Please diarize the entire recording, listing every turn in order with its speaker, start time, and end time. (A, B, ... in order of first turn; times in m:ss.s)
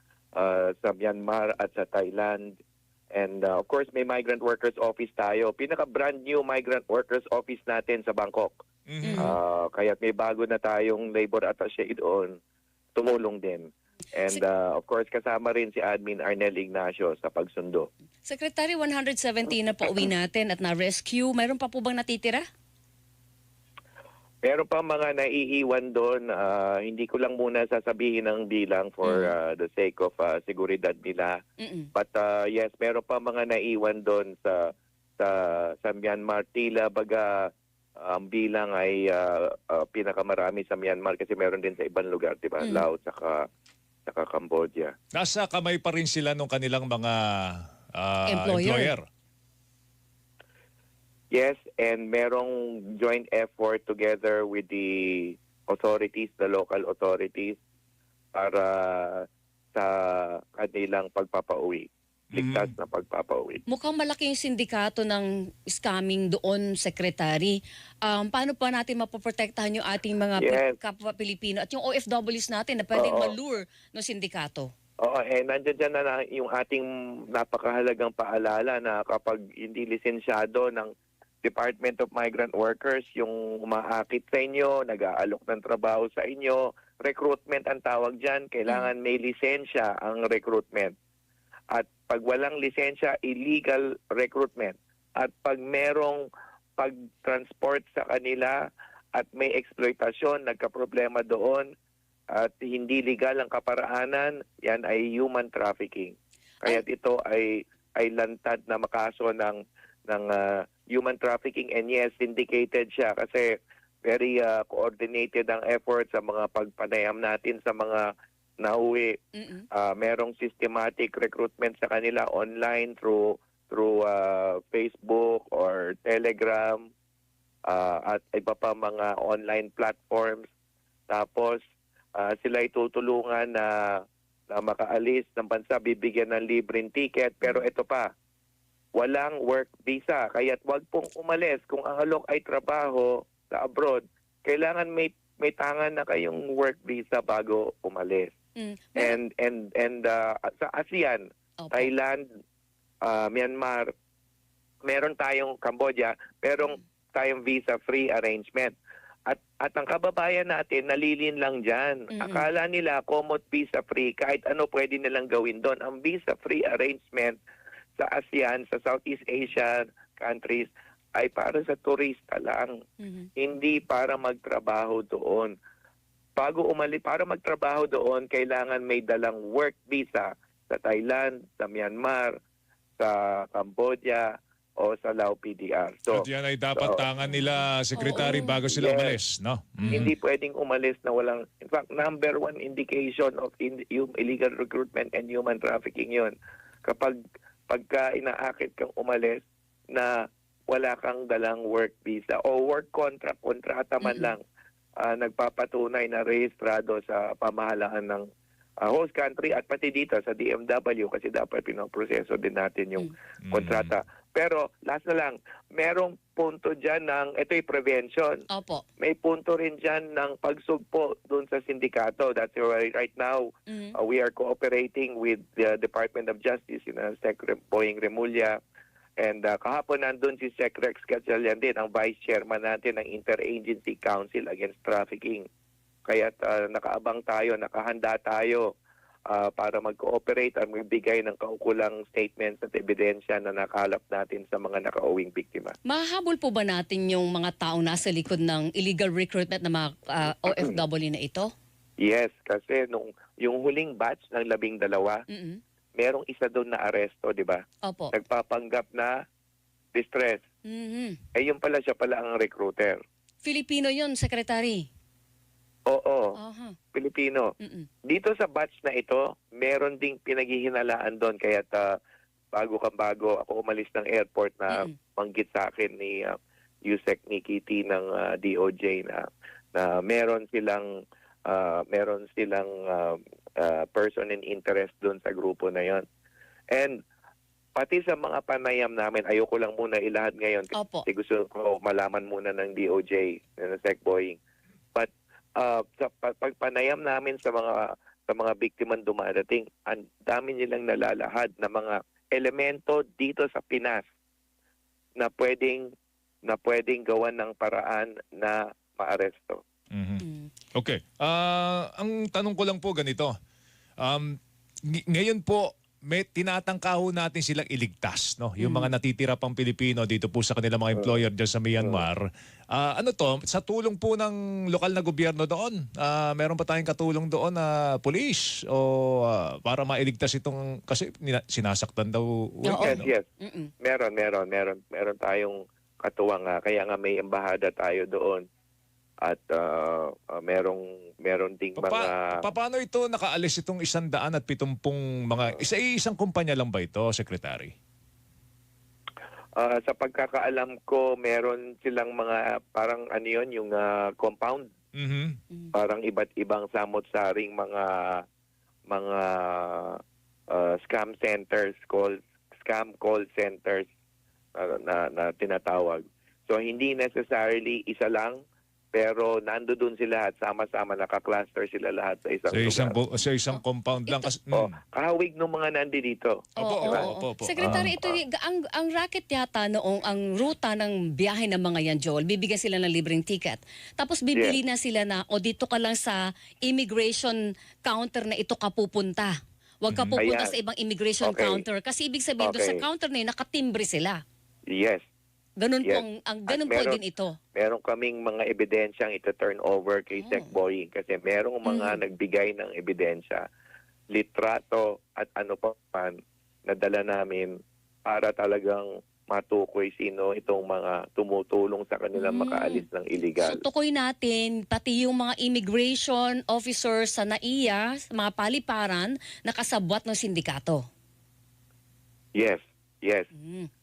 0:00.4-0:02.6 A
0:03.1-0:08.6 A
0:08.9-0:09.4 B
0:09.0-0:09.4 C
0:09.2-0:12.4 A
0:13.0-0:17.9 A
0:18.2-0:22.4 C
0:24.4-0:31.4 A
0:29.0-0:29.3 C
0:31.6-0:31.9 C
0:32.0-0:43.4 A
0:42.6-0:42.8 C
0:44.1-0:44.9 A
0:45.1-0:47.2 B
0:48.0-0:49.0 B
0:48.3-0:48.9 C
0:51.3-0:57.6 A
0:58.3-1:03.6 A
1:02.3-1:02.7 B
1:03.7-1:14.7 C
1:10.4-1:10.8 A
1:12.9-1:13.3 A
1:15.0-1:20.9 A
1:21.4-1:30.9 A
1:31.7-1:36.2 A
1:36.8-1:38.6 A
1:39.2-1:41.7 A
1:42.3-1:53.5 A
1:54.0-1:58.1 A
1:58.6-1:59.2 A
1:59.3-1:59.7 C
1:59.7-2:06.8 A
2:07.7-2:10.5 A
2:11.1-2:11.6 A
2:12.2-2:13.7 A
2:14.5-2:18.1 A
2:19.0-2:28.3 A
2:28.6-2:29.2 C
2:29.0-2:32.2 A
2:31.6-2:31.9 C
2:33.0-2:33.9 A
2:34.8-2:38.8 A
2:39.3-2:47.4 A
2:42.1-2:42.5 C
2:48.0-2:52.7 A
2:53.0-2:53.3 C
2:53.4-2:55.5 A
2:56.4-3:02.3 A
3:03.0-3:04.3 A
3:04.8-3:07.1 A
3:06.1-3:10.1 B
3:08.0-3:08.6 C
3:08.1-3:09.2 A
3:09.8-3:10.1 C
3:09.9-3:16.3 A
3:16.8-3:17.2 A
3:17.7-3:20.1 A
3:20.7-3:24.4 A
3:24.0-3:24.3 C
3:25.0-3:28.3 A
3:28.8-3:38.4 A
3:33.4-3:33.9 B
3:38.5-3:38.8 C
3:39.0-3:48.6 A
3:43.7-3:44.0 C
3:49.2-3:55.5 A
3:56.1-3:58.7 A
3:59.3-4:05.8 A
4:05.9-4:11.5 C
4:10.5-4:10.8 A
4:12.0-4:15.2 A
4:15.3-4:15.6 C
4:16.0-4:19.1 A
4:17.8-4:18.1 C
4:19.9-4:20.4 A
4:20.7-4:21.2 C
4:21.4-4:23.0 A
4:23.4-4:24.9 C
4:25.9-4:26.4 A
4:26.4-4:26.8 C
4:26.9-4:27.5 A
4:27.6-4:27.9 C
4:28.1-4:31.9 A
4:32.5-4:40.9 A
4:41.5-4:46.0 A
4:46.7-4:47.0 A
4:47.8-4:54.4 A
4:50.8-4:51.0 C
4:55.0-5:04.0 A
5:05.2-5:05.9 A
5:06.4-5:09.6 A
5:09.9-5:10.2 B
5:10.2-5:10.5 C
5:10.8-5:13.3 B
5:14.0-5:14.4 B
5:15.1-5:33.1 B
5:18.6-5:18.9 C
5:21.8-5:22.0 A
5:32.7-5:33.7 C
5:32.7-5:33.3 A
5:33.8-5:38.4 A
5:39.2-5:42.4 A
5:41.8-5:47.7 B
5:49.6-5:54.7 A
5:55.0-5:55.4 B
5:55.7-5:58.2 A
5:58.9-6:00.0 A
6:00.5-6:03.9 A
6:04.6-6:08.4 A
6:08.9-6:13.0 A
6:12.5-6:14.7 B
6:13.5-6:14.3 C
6:14.5-6:17.1 A
6:16.6-6:34.2 C
6:16.6-6:17.9 B
6:17.6-6:18.2 A
6:29.9-6:30.2 B
6:30.2-6:30.5 A
6:31.2-6:31.6 A
6:32.4-6:32.8 A
6:34.7-6:35.0 A
6:35.6-6:37.4 C
6:35.8-6:37.0 A
6:37.5-6:43.4 A
6:40.1-6:40.5 C
6:41.7-6:42.0 C
6:44.1-6:47.5 A
6:48.1-6:53.6 A
6:52.2-6:52.8 C
6:53.4-7:00.8 C
7:02.4-7:03.3 A
7:03.3-7:03.7 C